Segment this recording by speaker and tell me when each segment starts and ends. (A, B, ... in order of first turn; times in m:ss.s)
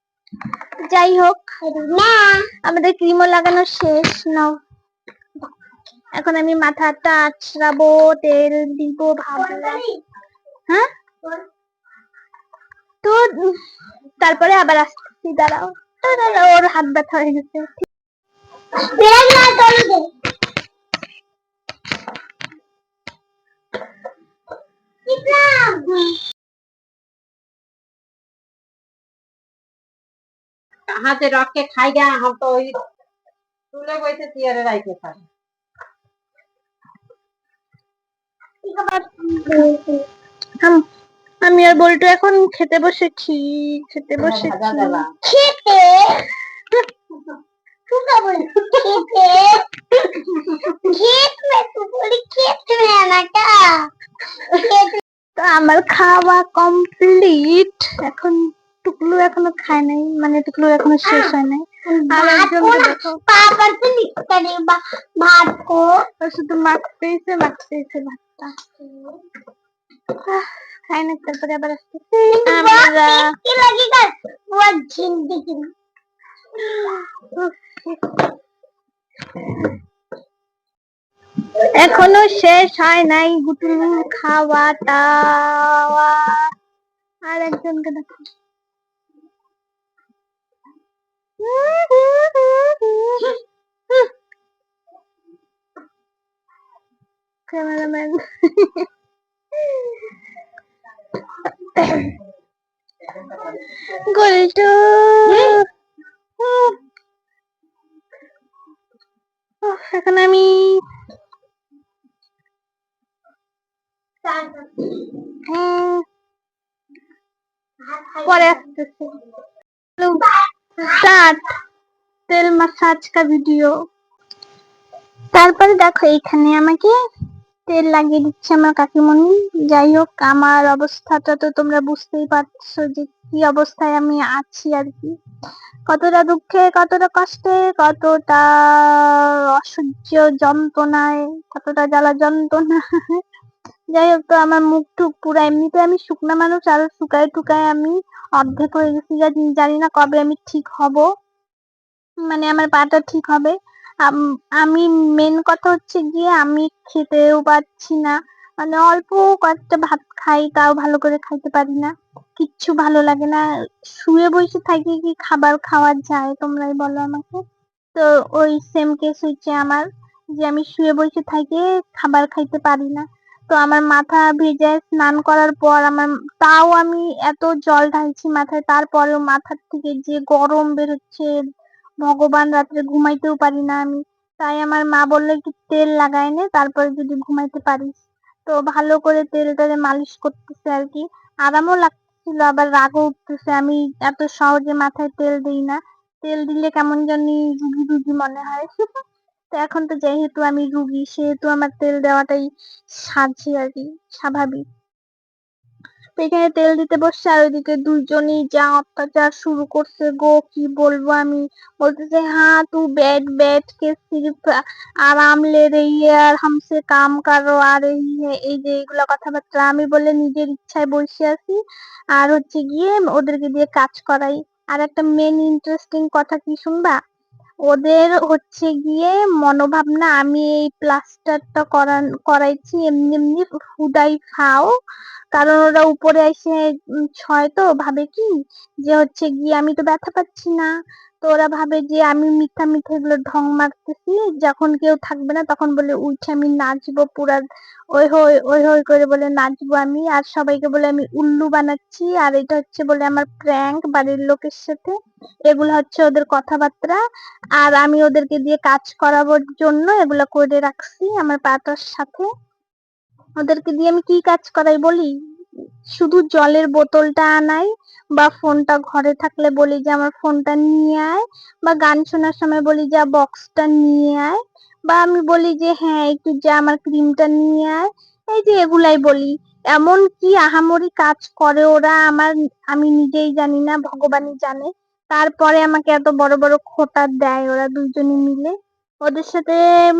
0:00.9-0:01.4 A
0:01.6-0:02.4 B
0:02.7-0:04.5 A
0:06.2-0:09.8 A
0:09.4-0:10.0 B
0:13.0-0:13.6 A
0:14.2-0:17.8 A
0:18.9-0:20.1 B
0:25.1-0:25.9 B
0:30.9-0:32.8 C
0:33.7-0:35.2 C
0:38.6-0:40.0 B
0:41.4-0:45.0 A
0:44.2-0:45.1 C
0:45.2-0:46.3 B
0:47.9-0:49.6 B
0:50.4-0:50.7 A
0:50.9-0:53.9 B
0:54.5-0:55.0 B
0:55.4-1:03.2 A
1:01.0-1:01.3 B
1:01.9-1:06.0 B
1:06.2-1:08.5 A
1:08.8-1:09.2 B
1:10.2-1:13.2 A
1:12.4-1:15.7 B
1:17.3-1:18.2 A
1:21.8-1:26.4 A
1:27.3-1:28.0 A
1:31.4-1:33.3 A
1:37.5-1:38.8 A
1:41.6-1:42.1 A
1:43.5-1:45.6 A
1:45.3-1:45.6 B
1:46.4-1:46.8 A
1:49.6-1:50.8 A
1:54.2-1:55.2 B
1:55.5-1:56.0 A
1:57.8-1:58.6 B
1:58.2-1:59.1 A
2:00.9-2:01.4 A
2:02.3-2:03.7 A
2:05.3-2:06.9 A
2:07.7-2:15.1 A
2:15.9-2:23.2 A
2:23.9-2:31.0 A
2:32.3-2:33.5 A
2:34.0-2:47.4 A
2:47.9-2:49.8 A
2:50.4-3:01.3 A
3:02.0-3:18.9 A
3:19.5-3:24.6 A
3:26.2-3:34.4 A
3:35.0-3:41.6 A
3:42.2-3:47.0 A
3:47.7-3:54.7 A
3:55.3-3:56.6 A
3:57.2-3:58.3 A
3:58.8-4:00.7 A
4:01.2-4:14.9 A
4:15.5-4:17.0 A
4:17.6-4:22.2 A
4:23.4-4:25.1 A
4:25.9-4:48.5 A
4:49.0-4:49.6 A